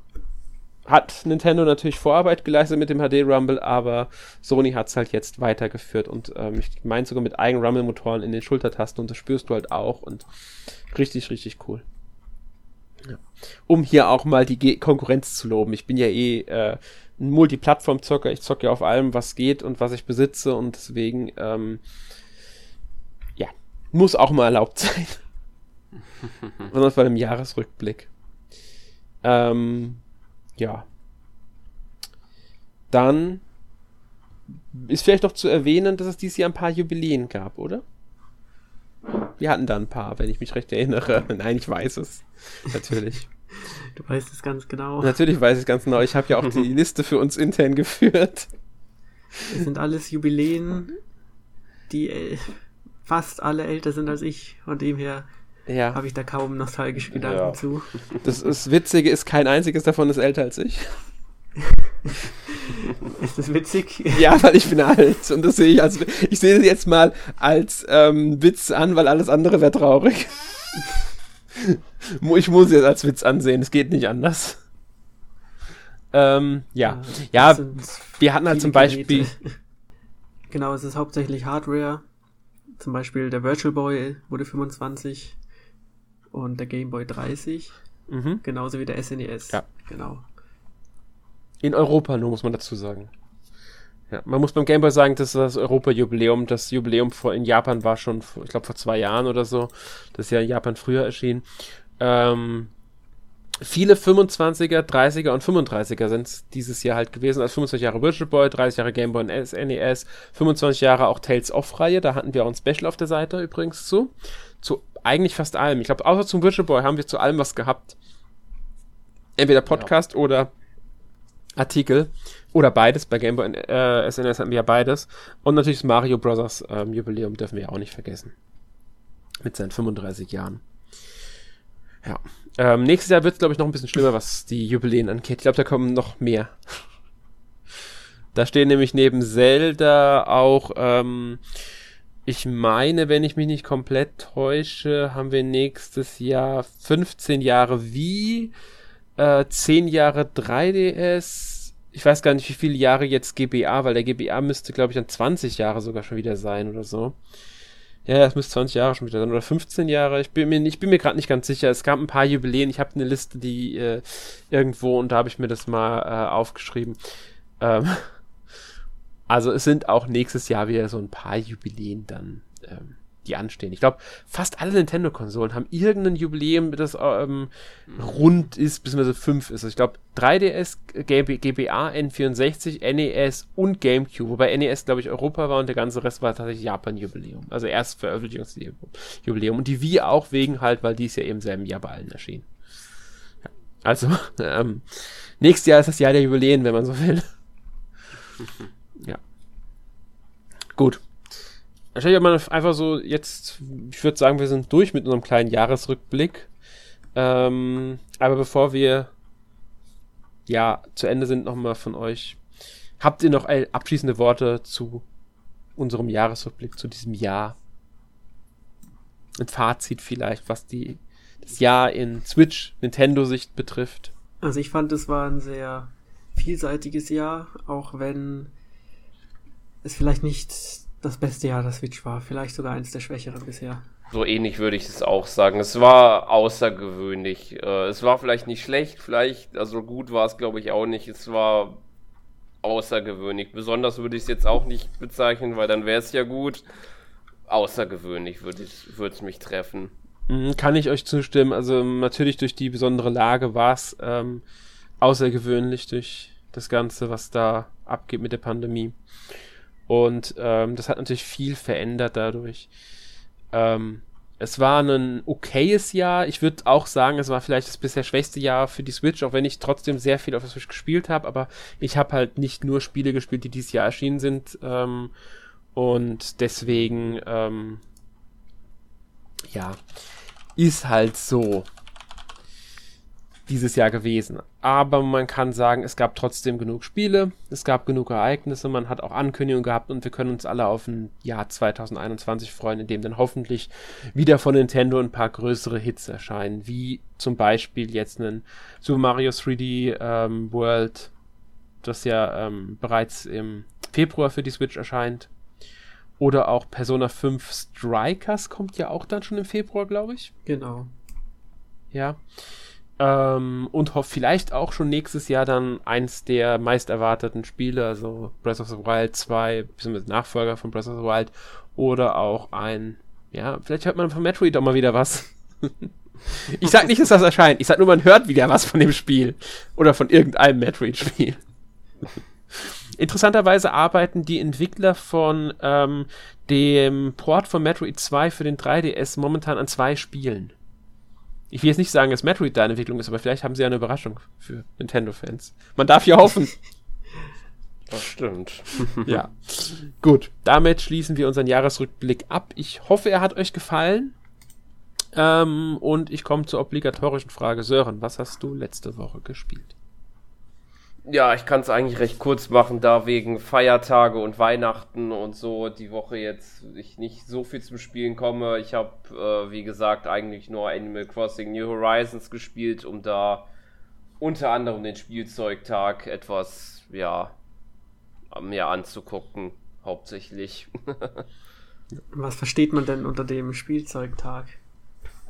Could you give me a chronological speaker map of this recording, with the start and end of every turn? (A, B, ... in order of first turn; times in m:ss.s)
0:00.9-0:11.8 A
0:13.0-0:21.8 A
0:23.4-0:25.2 A
0:26.7-0:28.1 A
0:29.2-0:30.0 A
0:30.6-0:30.9 A
0:32.9-0:33.4 A
0:34.5-0:37.8 A
0:39.4-0:43.3 A
0:43.6-0:45.2 B
0:45.0-0:48.5 A
0:49.5-0:51.0 B
0:51.9-0:55.3 B
0:55.7-0:56.0 A
0:55.9-0:57.9 B
0:57.2-0:58.2 C
0:58.2-1:01.0 A
1:01.6-1:04.3 B
1:04.1-1:10.9 A
1:11.5-1:14.6 A
1:16.1-1:19.3 A
1:16.9-1:19.5 B
1:20.5-1:22.0 B
1:22.8-1:25.4 B
1:26.3-1:27.8 B
1:28.1-1:28.4 A
1:28.4-1:30.2 B
1:31.6-1:33.1 A
1:34.1-1:41.5 A
1:42.0-1:42.7 A
1:43.6-1:58.0 A
1:59.4-2:00.5 A
2:01.6-2:08.3 A
2:09.4-2:10.6 A
2:12.0-2:16.9 A
2:18.3-2:21.4 A
2:22.3-2:28.5 A
2:29.2-2:37.2 A
2:38.1-2:47.0 A
2:47.6-2:48.2 A
2:49.3-3:12.5 A
3:13.4-3:17.3 A
3:20.7-3:21.0 A
3:22.0-3:26.5 A
3:27.2-3:29.1 A
3:30.5-3:32.4 A
3:33.0-3:35.0 A
3:35.8-3:37.6 A
3:39.4-3:44.1 A
3:44.4-3:48.5 B
3:49.8-3:53.8 B
3:54.1-4:01.8 C
4:02.6-4:06.7 C
4:07.5-4:09.9 C
4:10.3-4:14.4 A
4:15.0-4:19.0 A
4:19.9-4:22.7 A
4:23.5-4:35.1 A
4:35.8-4:37.8 A
4:39.5-4:39.8 A
4:40.6-4:41.7 A
4:43.5-5:01.1 A
5:01.8-5:05.3 A
5:06.2-5:10.3 A
5:10.5-5:10.9 B
5:11.9-5:12.2 A
5:13.0-5:31.4 A
5:32.0-5:40.5 A
5:41.5-5:46.6 A
5:47.9-5:49.2 C
5:49.1-5:54.1 A
5:55.1-5:59.7 A
6:01.1-6:13.5 C
6:14.2-6:17.3 C
6:18.3-6:21.2 C
6:22.1-6:24.6 B